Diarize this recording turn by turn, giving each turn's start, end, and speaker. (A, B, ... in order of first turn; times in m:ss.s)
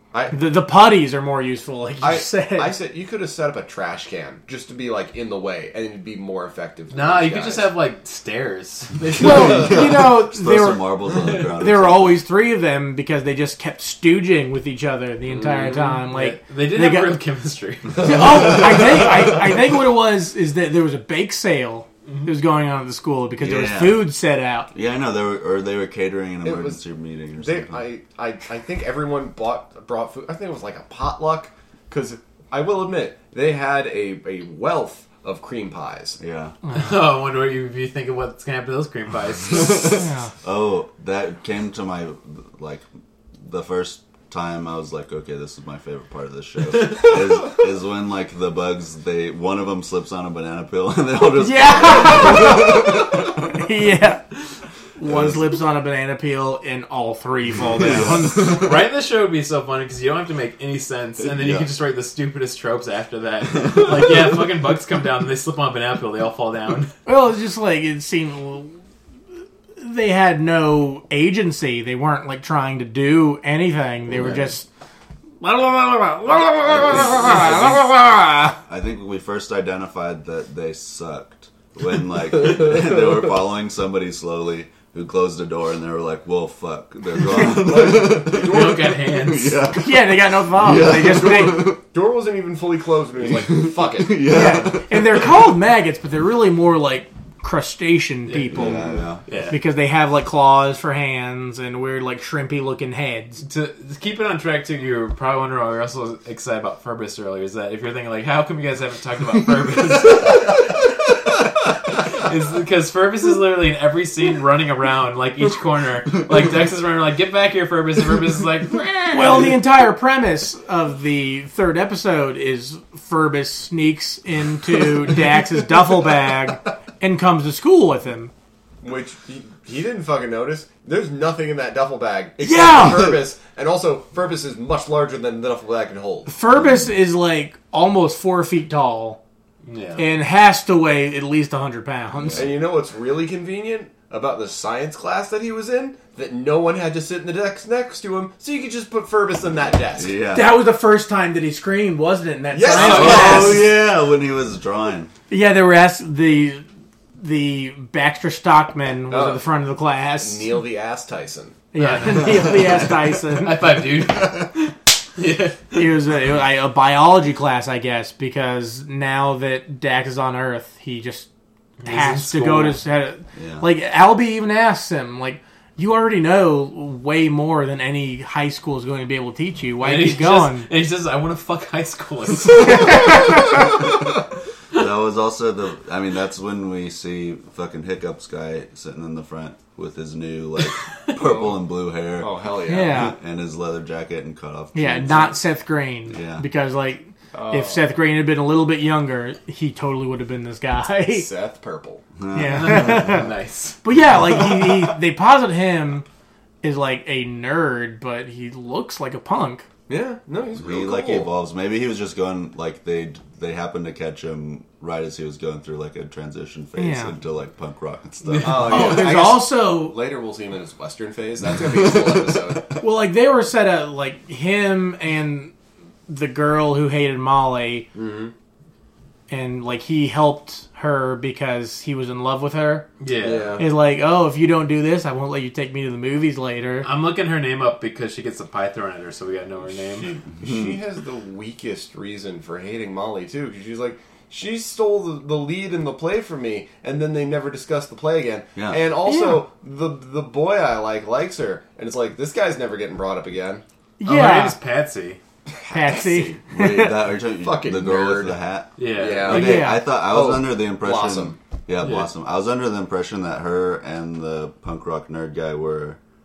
0:00.3-0:02.7 A
0:02.0-0:07.7 B
0:06.9-0:09.8 C
0:09.2-0:12.2 D
0:09.2-0:17.2 A
0:15.3-0:16.0 B
0:15.7-0:18.2 C
0:18.0-0:24.7 A
0:18.1-0:19.0 D
0:18.5-0:18.8 B
0:22.0-0:22.3 C
0:23.4-0:24.1 D
0:24.7-0:27.8 D
0:26.4-0:26.8 B
0:27.3-0:36.2 B
0:36.2-0:36.6 D
0:36.6-0:36.9 A
0:36.7-0:39.9 C
0:39.5-0:42.8 D
0:39.9-0:40.3 A
0:43.4-0:53.6 D
0:51.4-0:54.4 A
0:55.0-0:58.8 A
0:55.0-0:55.5 D
0:57.6-0:58.8 D
0:58.4-1:06.9 C
1:01.2-1:01.7 D
1:07.0-1:08.7 A
1:09.8-1:14.7 A
1:14.1-1:14.4 D
1:15.4-1:18.6 A
1:16.3-1:17.9 D
1:18.6-1:31.8 D
1:27.4-1:28.7 B
1:28.3-1:29.7 C
1:29.8-1:31.8 A
1:30.9-1:34.6 B
1:33.2-1:35.4 D
1:34.2-1:43.4 A
1:38.3-1:39.6 C
1:38.5-1:39.2 D
1:43.4-1:50.6 C
1:52.0-1:59.5 C
1:59.1-2:08.3 A
2:08.8-2:16.3 B
2:12.4-2:13.2 A
2:16.3-2:19.2 A
2:16.6-2:16.9 D
2:19.6-2:20.0 C
2:20.0-2:22.5 A
2:22.2-2:22.4 D
2:22.3-2:30.2 B
2:29.9-2:30.6 D
2:30.3-2:33.7 A
2:32.5-2:33.6 B
2:32.7-2:33.5 C
2:32.7-2:35.1 D
2:35.3-2:36.6 A
2:37.2-2:40.6 A
2:39.1-2:39.6 B
2:40.1-2:41.6 B
2:41.7-2:43.8 A
2:41.8-2:45.9 C
2:45.7-2:51.3 A
2:51.8-2:52.8 C
2:51.8-3:00.7 A
2:53.3-2:53.7 D
2:59.8-3:03.1 C
3:02.6-3:03.6 A
3:04.7-3:15.4 D
3:11.2-3:11.5 B
3:12.2-3:13.1 B
3:12.7-3:13.1 A
3:14.7-3:21.3 A
3:16.1-3:16.5 D
3:17.3-3:18.0 B
3:21.1-3:22.0 B
3:22.2-3:23.1 D
3:22.3-3:23.3 A
3:22.4-3:23.8 C
3:23.8-3:26.0 A
3:24.3-3:24.8 D
3:26.6-3:29.6 A
3:29.9-3:31.3 B
3:30.5-3:39.0 D
3:36.8-3:37.1 A
3:38.3-3:38.6 C
3:38.4-3:42.8 B
3:38.4-3:39.9 A
3:41.9-3:42.4 D
3:42.8-3:45.5 A
3:46.1-3:47.9 A
3:47.9-3:48.3 B
3:49.3-3:52.9 A
3:53.0-3:53.6 C
3:53.2-3:53.6 B
3:53.6-3:56.9 A
3:56.8-4:00.1 C
3:59.7-4:13.6 B
4:00.4-4:00.8 D
4:08.6-4:08.9 D
4:09.0-4:09.4 A
4:14.0-4:14.6 A
4:14.0-4:15.2 C
4:15.5-4:16.4 B
4:15.7-4:17.0 A
4:16.5-4:26.0 D
4:17.4-4:18.4 B
4:18.8-4:19.4 C
4:18.9-4:21.4 B
4:19.3-4:19.9 A
4:21.8-4:22.1 C